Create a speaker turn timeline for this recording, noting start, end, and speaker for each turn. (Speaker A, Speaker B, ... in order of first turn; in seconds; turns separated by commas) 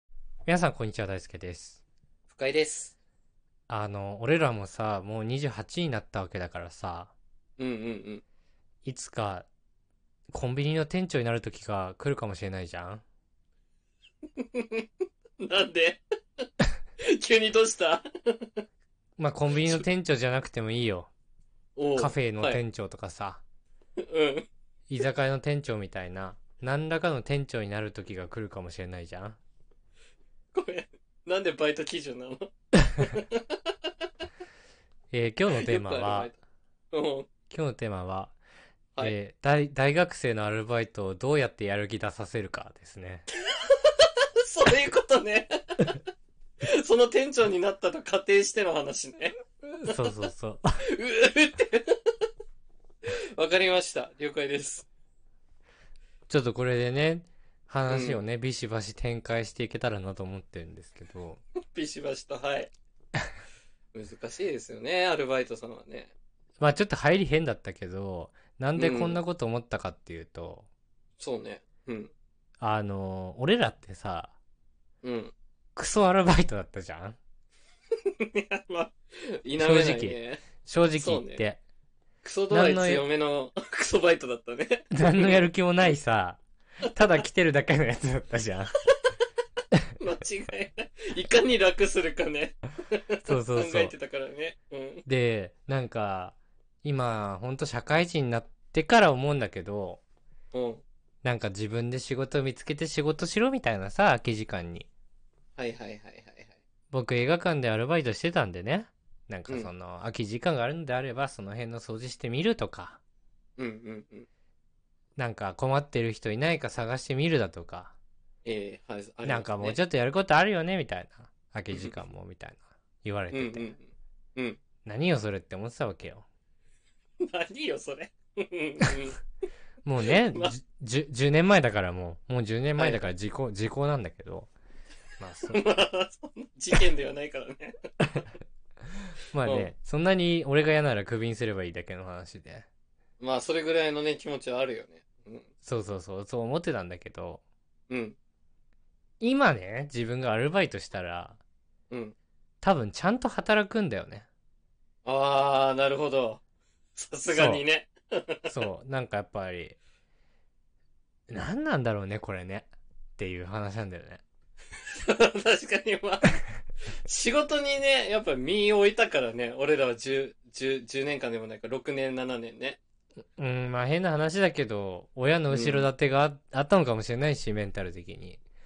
Speaker A: 0.5-1.8, Speaker B: 2.3-2.9, Speaker A: 3.7-7.1, Speaker B: 7.6-8.2, Speaker A: 8.8-9.5, Speaker A: 10.3-13.0, Speaker B: 14.4-14.9, Speaker B: 15.4-16.4, Speaker B: 17.0-18.6, Speaker A: 19.2-21.1, Speaker B: 21.8-22.6, Speaker A: 21.9-23.4, Speaker B: 24.0-24.4, Speaker A: 24.9-29.4, Speaker B: 30.5-33.6, Speaker A: 35.1-36.3, Speaker B: 35.5-36.4, Speaker B: 36.9-37.3, Speaker A: 37.5-38.3, Speaker A: 39.0-43.3, Speaker B: 43.5-46.0, Speaker B: 46.6-50.0, Speaker A: 49.8-50.7, Speaker B: 50.9-52.1, Speaker B: 53.4-54.9, Speaker A: 56.3-61.4, Speaker B: 57.9-58.2, Speaker B: 61.7-62.7, Speaker B: 63.9-66.1, Speaker A: 66.6-70.7, Speaker B: 68.7-69.2, Speaker B: 71.2-72.1, Speaker A: 72.6-74.3, Speaker B: 75.0-75.3, Speaker A: 75.8-77.2, Speaker B: 78.0-80.4, Speaker A: 79.6-81.6, Speaker B: 80.9-81.4, Speaker B: 82.2-85.4, Speaker A: 82.5-83.0, Speaker A: 84.9-86.4, Speaker A: 86.9-88.7, Speaker B: 90.0-95.0, Speaker A: 93.2-93.9, Speaker A: 95.0-100.0, Speaker B: 100.5-100.8, Speaker A: 101.2-104.9, Speaker B: 105.6-106.5, Speaker A: 106.9-113.0, Speaker B: 113.6-114.3, Speaker A: 115.2-117.9, Speaker B: 118.4-119.8, Speaker A: 119.2-123.8, Speaker B: 123.3-124.6, Speaker A: 124.8-126.2, Speaker B: 127.2-129.2, Speaker A: 129.8-134.5, Speaker B: 130.1-130.5, Speaker B: 132.8-133.1, Speaker A: 135.2-135.6, Speaker B: 135.5-137.7, Speaker A: 139.3-142.7, Speaker B: 139.4-139.7, Speaker B: 143.2-145.5, Speaker A: 145.6-147.4, Speaker B: 147.9-148.2, Speaker A: 149.2-151.4, Speaker B: 151.9-152.1, Speaker A: 152.6-154.3, Speaker B: 155.0-156.4, Speaker B: 156.9-158.5, Speaker A: 157.3-157.6, Speaker A: 158.5-159.8, Speaker A: 161.3-164.2, Speaker B: 164.9-166.4, Speaker B: 167.1-172.8, Speaker A: 173.4-178.4, Speaker B: 175.5-175.9